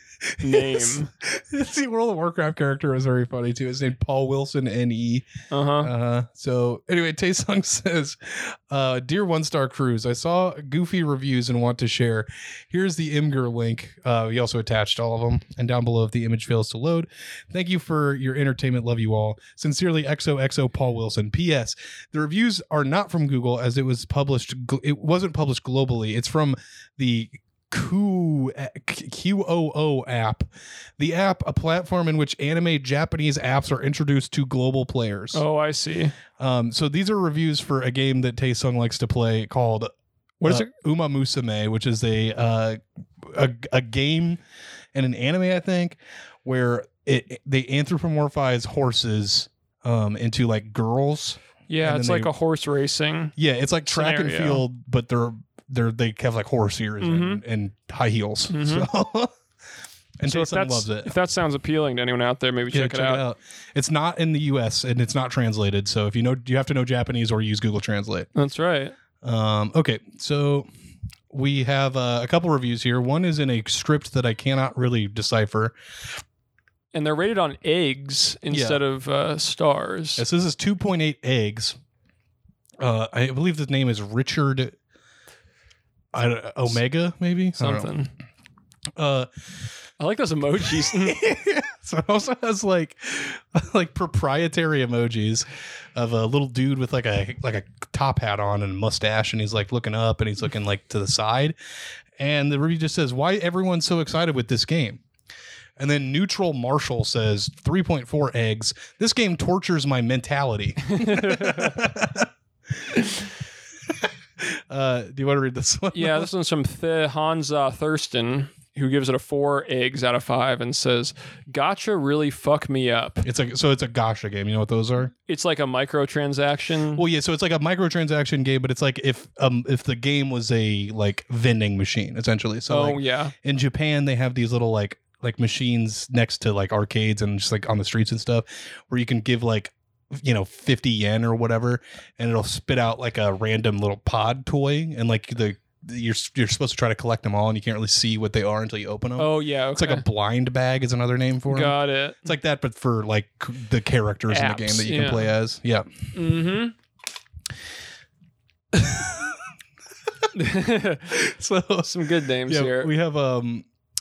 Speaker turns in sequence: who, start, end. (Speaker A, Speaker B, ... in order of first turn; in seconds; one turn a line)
Speaker A: 0.2-5.3
Speaker B: 0.4-1.1
Speaker B: 5.5-5.9
Speaker A: 5.8-35.4
Speaker B: 35.3-36.1
Speaker A: 36.4-39.9
Speaker B: 40.4-40.7
Speaker A: 40.4-44.4
Speaker A: 44.9-52.3
Speaker B: 51.7-53.3
Speaker A: 53.4-59.3
Speaker B: 53.9-54.6
Speaker B: 57.0-57.4
Speaker B: 58.5-58.9
Speaker A: 60.2-61.1
Speaker B: 60.3-63.2
Speaker A: 62.7-68.3
Speaker B: 68.3-68.9
Speaker A: 69.2-70.7
Speaker A: 71.3-75.7
Speaker B: 76.9-80.2
Speaker A: 78.5-78.8
Speaker A: 80.2-81.8
Speaker A: 82.8-84.8
Speaker A: 86.1-87.9
Speaker B: 87.6-88.1
Speaker A: 89.0-89.3
Speaker B: 90.0-91.2
Speaker A: 90.6-101.6
Speaker A: 102.2-105.0
Speaker A: 105.8-113.1
Speaker B: 110.9-111.9
Speaker A: 113.9-116.3
Speaker B: 115.9-123.2
Speaker A: 123.2-125.1
Speaker B: 125.3-127.0
Speaker A: 127.0-155.9
Speaker B: 132.7-133.3
Speaker B: 149.2-150.1
Speaker B: 151.5-152.3
Speaker B: 154.3-155.3
Speaker B: 156.1-156.7
Speaker A: 158.7-159.5
Speaker B: 160.3-161.2
Speaker A: 161.1-163.7
Speaker B: 161.8-162.9